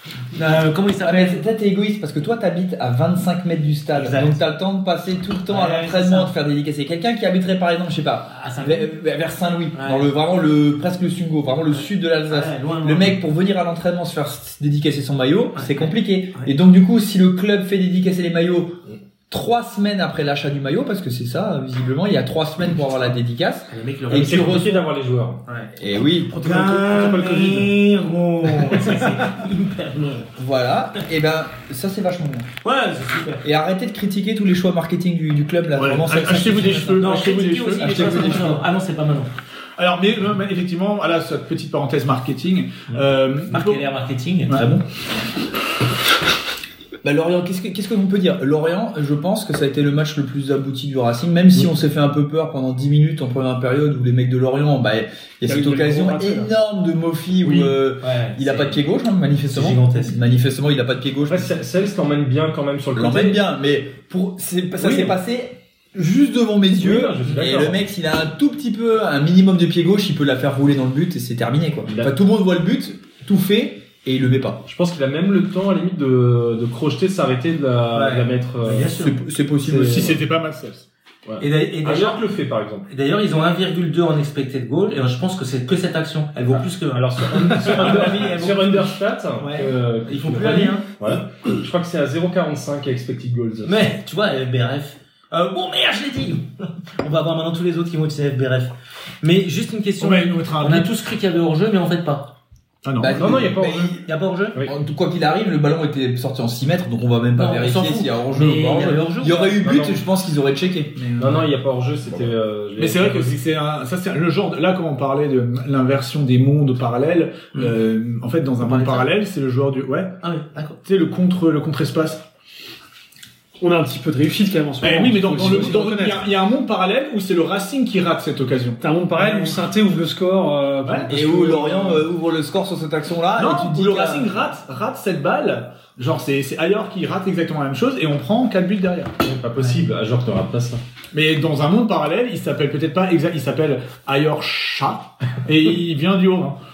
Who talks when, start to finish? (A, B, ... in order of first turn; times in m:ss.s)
0:00.3-0:01.4 A
0:01.0-0:24.8 B
0:04.0-0:04.4 A
0:05.5-0:06.3 A
0:08.3-0:08.9 A
0:09.7-0:10.1 A
0:11.7-0:13.2 A
0:15.5-0:16.5 A
0:23.7-0:24.6 A
0:24.1-0:25.4 C
0:25.7-0:26.4 B
0:26.3-0:30.3 A
0:30.4-0:32.5 B
0:32.6-0:33.4 A
0:33.4-0:37.1 B
0:35.7-0:38.5 D
0:37.0-0:39.3 A
0:37.8-0:38.6 B
0:39.8-0:43.9 D
0:42.9-0:44.8 A
0:47.0-1:01.5 B
0:55.4-0:56.5 E
0:58.0-0:58.8 A
0:59.5-1:00.2 A
1:01.3-1:03.4 C
1:02.9-1:14.6 B
1:04.8-1:05.1 C
1:06.7-1:07.8 C
1:14.6-1:18.9 C
1:17.9-1:19.2 A
1:18.9-1:20.1 B
1:19.6-1:20.2 C
1:19.6-1:20.9 D
1:21.2-1:22.9 C
1:21.4-1:22.2 A
1:22.9-1:30.9 A
1:26.9-1:33.7 C
1:33.6-1:42.3 A
1:40.0-1:40.9 D
1:42.8-1:43.5 D
1:43.0-1:44.0 B
1:43.2-1:43.9 C
1:44.0-1:44.6 A
1:44.6-1:51.4 B
1:47.4-1:49.6 A
1:49.6-1:50.0 C
1:51.2-1:53.4 C
1:52.8-2:00.1 D
1:58.6-1:59.0 A
2:00.2-2:00.8 A
2:00.8-2:02.2 D
2:03.6-2:06.2 E
2:04.8-2:09.5 D
2:08.8-2:11.4 E
2:10.8-2:12.0 D
2:11.1-2:14.3 B
2:13.4-2:19.1 D
2:19.2-2:20.8 C
2:21.1-2:26.6 D